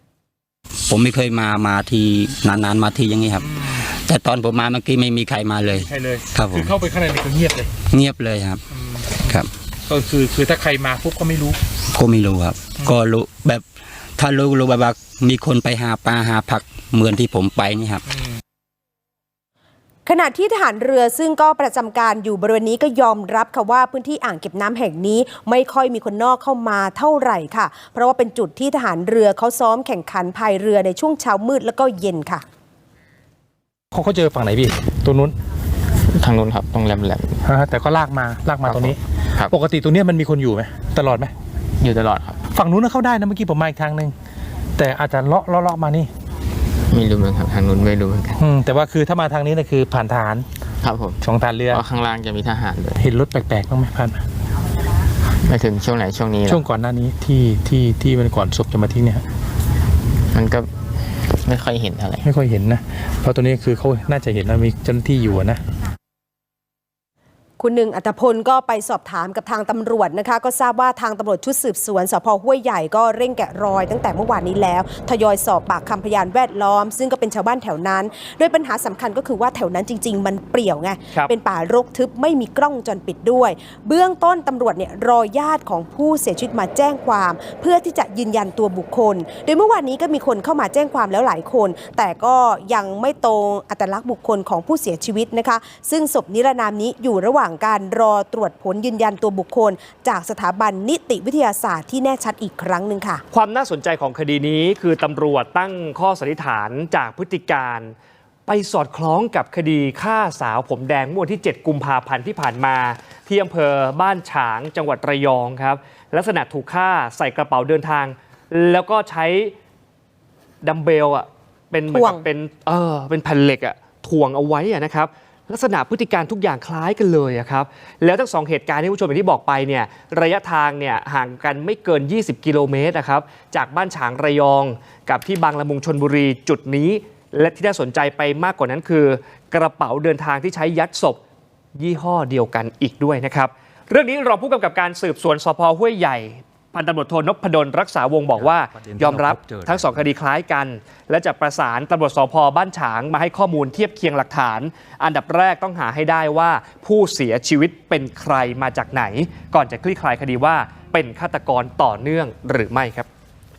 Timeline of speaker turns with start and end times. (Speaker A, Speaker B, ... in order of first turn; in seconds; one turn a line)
Speaker A: 0.9-6.7
Speaker B: 3.4-3.8
Speaker B: 5.7-7.7
Speaker A: 7.9-8.6
Speaker B: 8.7-11.6
Speaker A: 11.9-13.7
Speaker A: 14.2-18.1
Speaker C: 20.1-32.4
Speaker B: 33.9-35.3
Speaker D: 36.1-37.4
Speaker B: 37.4-41.3
Speaker D: 38.6-39.5
Speaker D: 41.8-42.4
Speaker B: 42.5-44.1
Speaker B: 44.8-46.1
Speaker D: 46.9-48.4
Speaker B: 48.4-50.5
Speaker D: 50.8-51.2
Speaker B: 51.2-51.8
Speaker D: 51.7-53.0
Speaker B: 53.0-54.2
Speaker D: 55.4-56.6
Speaker B: 56.5-59.2
Speaker D: 60.3-60.7
Speaker D: 61.4-62.2
Speaker B: 62.2-65.6
Speaker C: 67.6-103.2
Speaker E: 103.3-107.9
Speaker E: 108.5-119.5
Speaker E: 120.6-141.2
Speaker C: 121.9-122.2
Speaker E: 141.8-163.1
Speaker B: 148.9-149.5